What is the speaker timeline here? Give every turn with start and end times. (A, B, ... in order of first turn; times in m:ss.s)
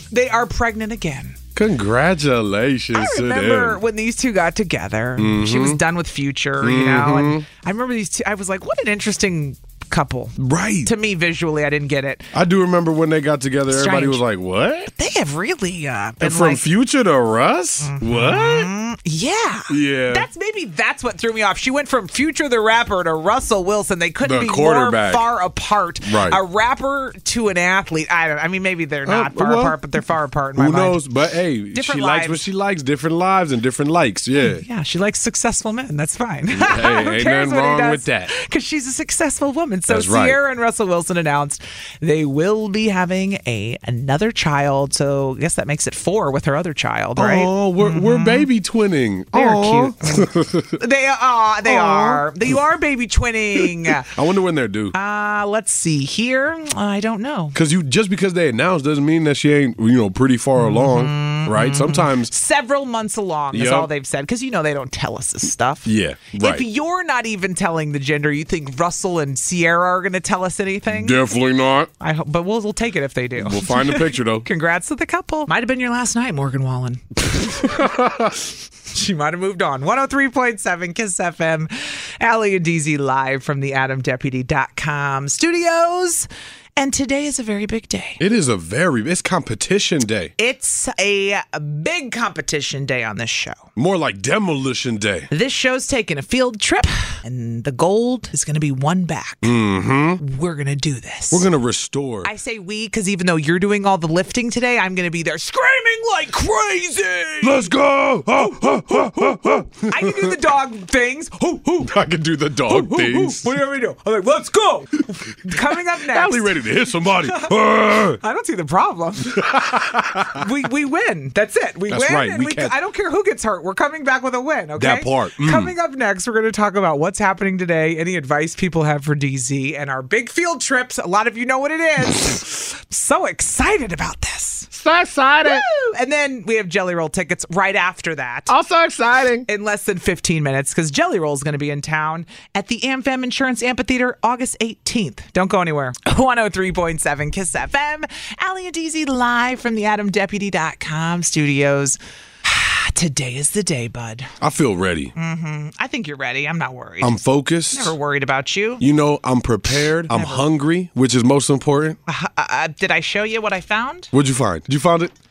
0:00.1-0:01.4 A
0:01.6-0:03.8 B
0:02.9-0:12.3 A
0:05.2-0:05.8 B
0:06.6-0:07.5 B
0:10.4-0:10.9 B
0:12.3-0:14.9 B
0:13.7-0:14.2 A
0:14.9-0:16.6 A
0:16.2-0:18.7 B
0:17.8-0:31.0 A
0:19.7-0:20.3 B
0:24.2-0:25.3 B
0:26.0-0:26.4 B
0:29.1-0:29.8 B
0:30.6-0:34.6 B
0:31.7-0:32.4 A
0:34.4-0:48.5 A
0:36.5-0:38.3 B
0:39.9-0:40.4 B
0:47.2-0:50.8 B
0:49.3-0:54.1 A
0:51.6-0:52.6 B
0:53.6-0:54.9 B
0:54.9-0:57.6 A
0:57.5-1:02.3 B
1:00.6-1:11.2 A
1:03.5-1:03.9 B
1:05.8-1:06.7 B
1:10.9-1:11.9 B
1:12.0-1:17.9 A
1:13.4-1:14.5 B
1:17.6-1:18.4 B
1:18.9-1:28.2 A
1:28.2-1:30.3 B
1:30.4-1:33.7 A
1:33.8-1:35.3 B
1:35.3-1:39.5 A
1:39.4-1:40.2 B
1:40.2-1:41.4 A
1:41.3-1:42.3 B
1:42.2-1:47.7 A
1:47.4-1:50.4 B
1:48.3-1:51.9 A
1:51.8-1:53.5 B
1:52.7-1:56.6 A
1:55.5-1:58.2 B
1:57.3-1:57.5 A
1:58.1-1:59.4 A
1:59.3-2:00.5 B
2:00.4-2:14.7 A
2:01.9-2:02.8 B
2:04.8-2:05.7 B
2:14.7-2:15.7 B
2:15.4-2:18.6 A
2:18.5-2:19.5 B
2:19.5-2:34.3 A
2:34.4-2:35.1 B
2:35.2-2:37.2 A
2:37.0-2:38.0 B
2:37.7-2:38.8 A
2:38.8-2:42.0 B
2:40.1-2:40.5 A
2:42.1-2:44.1 A
2:44.1-2:45.1 B